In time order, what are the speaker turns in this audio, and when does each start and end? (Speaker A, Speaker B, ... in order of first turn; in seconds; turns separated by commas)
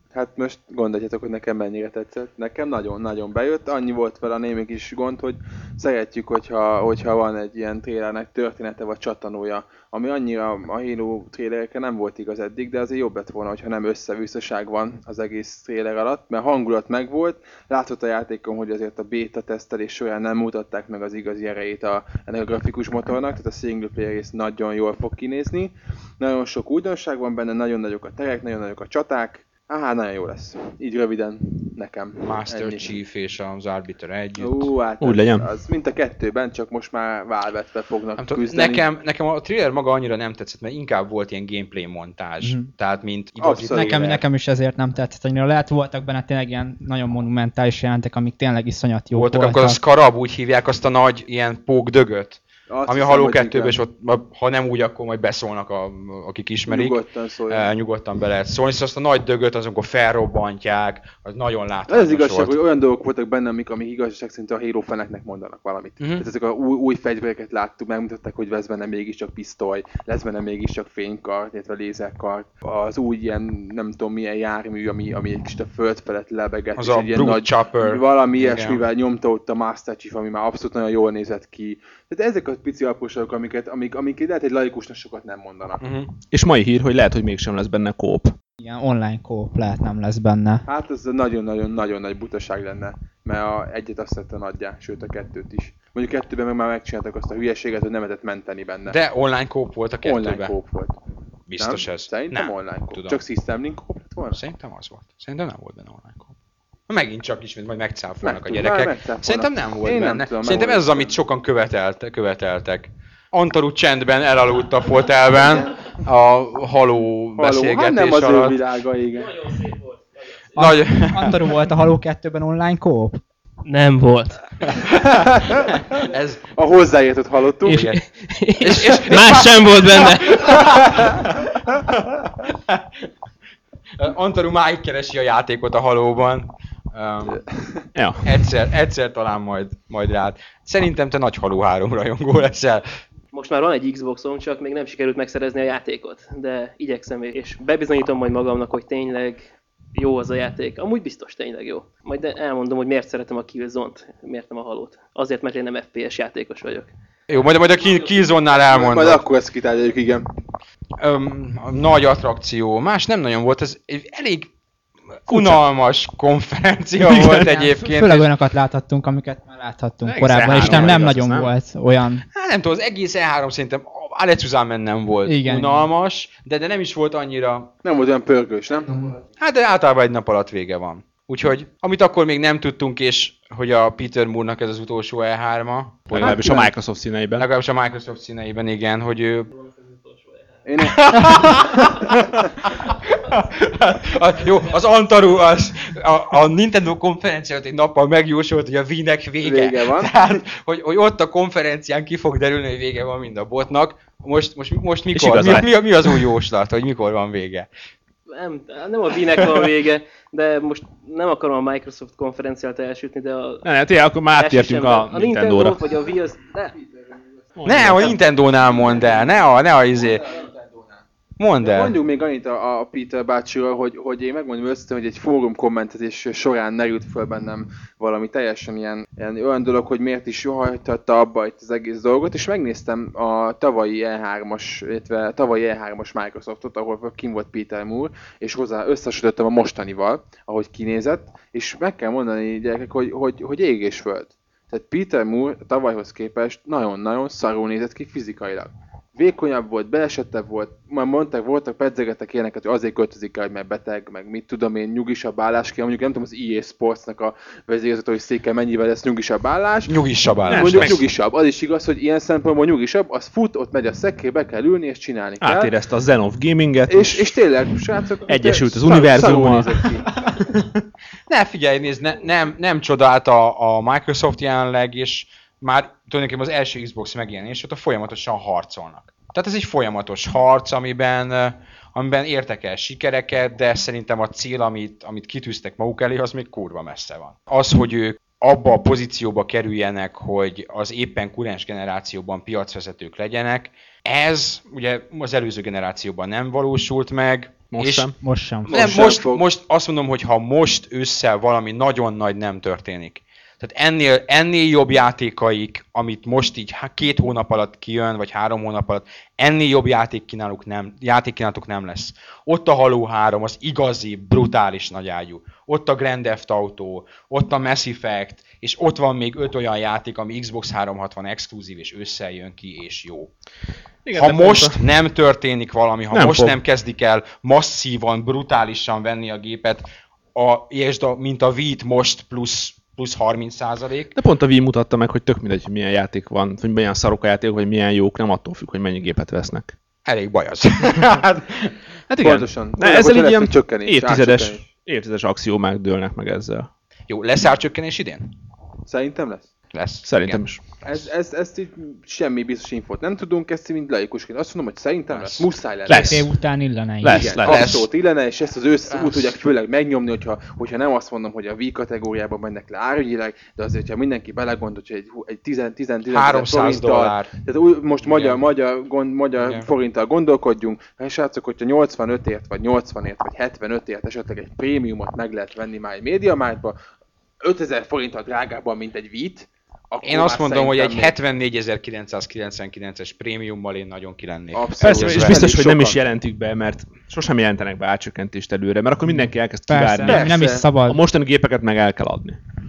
Speaker A: 0.1-33.0, Speaker B: 32.2-34.7, Speaker A: 34.4-38.8, Speaker C: 35.0-35.5, Speaker B: 38.2-44.2, Speaker D: 42.4-42.7, Speaker A: 43.4-44.1, Speaker D: 43.7-49.8, Speaker B: 49.1-62.5, Speaker A: 52.7-53.8, Speaker A: 56.7-57.7, Speaker A: 61.9-85.8, Speaker B: 66.0-66.2, Speaker B: 76.8-78.8, Speaker B: 85.8-86.1, Speaker C: 86.2-88.4, Speaker D: 88.6-90.6, Speaker A: 90.7-99.0, Speaker B: 98.9-100.5, Speaker A: 100.0-101.0, Speaker B: 101.5-103.2, Speaker A: 101.6-104.4, Speaker B: 104.3-106.3, Speaker B: 106.9-118.6, Speaker A: 108.2-111.2, Speaker A: 117.4-119.4, Speaker E: 119.3-120.4, Speaker B: 120.6-121.4, Speaker D: 120.6-123.2, Speaker E: 123.6-124.5, Speaker B: 124.8-126.4, Speaker A: 125.2-125.6, Speaker A: 126.5-127.9, Speaker B: 127.7-128.0, Speaker E: 127.7-131.1, Speaker B: 128.6-132.9, Speaker B: 134.0-137.4, Speaker C: 137.9-138.3, Speaker B: 138.2-142.9, Speaker E: 143.3-156.9, Speaker B: 157.3-159.2, Speaker A: 158.6-160.3, Speaker B: 161.0-164.5, Speaker B: 165.2-168.3, Speaker C: 165.3-165.6, Speaker D: 167.1-172.2, Speaker C: 170.0-171.5, Speaker B: 170.6-170.9, Speaker B: 172.3-177.7, Speaker D: 175.2-175.9, Speaker A: 177.8-179.2, Speaker B: 179.4-186.6, Speaker C: 186.1-187.5, Speaker A: 186.2-186.7, Speaker B: 187.3-189.5, Speaker E: 189.6-190.4, Speaker A: 190.6-192.3, Speaker B: 190.8-207.7, Speaker A: 199.4-200.1, Speaker C: 205.1-206.3, Speaker E: 208.3-213.7, Speaker C: 213.6-215.8, Speaker E: 214.3-216.8, Speaker C: 217.6-218.2, Speaker B: 217.6-220.3, Speaker A: 218.7-219.2, Speaker A: 219.9-221.0, Speaker B: 221.4-221.9, Speaker A: 221.6-259.9, Speaker B: 259.9-260.9, Speaker C: 260.4-261.0, Speaker A: 260.5-265.7, Speaker C: 265.4-267.4, Speaker A: 266.9-270.1, Speaker C: 268.2-269.8, Speaker C: 270.3-270.7, Speaker B: 271.3-298.1, Speaker C: 297.7-298.2, Speaker D: 298.2-298.8, Speaker A: 298.7-299.4, Speaker B: 298.7-323.3, Speaker C: 324.0-324.8, Speaker B: 324.1-334.1, Speaker C: 326.1-326.6, Speaker C: 334.1-339.8, Speaker B: 340.1-341.8, Speaker C: 342.1-346.7, Speaker A: 342.2-344.7, Speaker B: 347.1-348.3, Speaker A: 348.9-349.5, Speaker B: 349.7-351.0, Speaker C: 350.0-350.6, Speaker A: 350.8-356.2, Speaker B: 355.1-355.5, Speaker C: 355.9-356.3, Speaker D: 355.9-357.4, Speaker C: 357.0-357.7, Speaker A: 357.1-376.8, Speaker B: 357.4-357.9, Speaker B: 358.9-359.3, Speaker B: 366.1-367.3, Speaker B: 368.0-368.4, Speaker A: 377.4-381.1, Speaker B: 380.0-385.4, Speaker A: 384.5-386.0, Speaker C: 384.8-392.4, Speaker D: 389.7-391.0, Speaker A: 390.0-390.6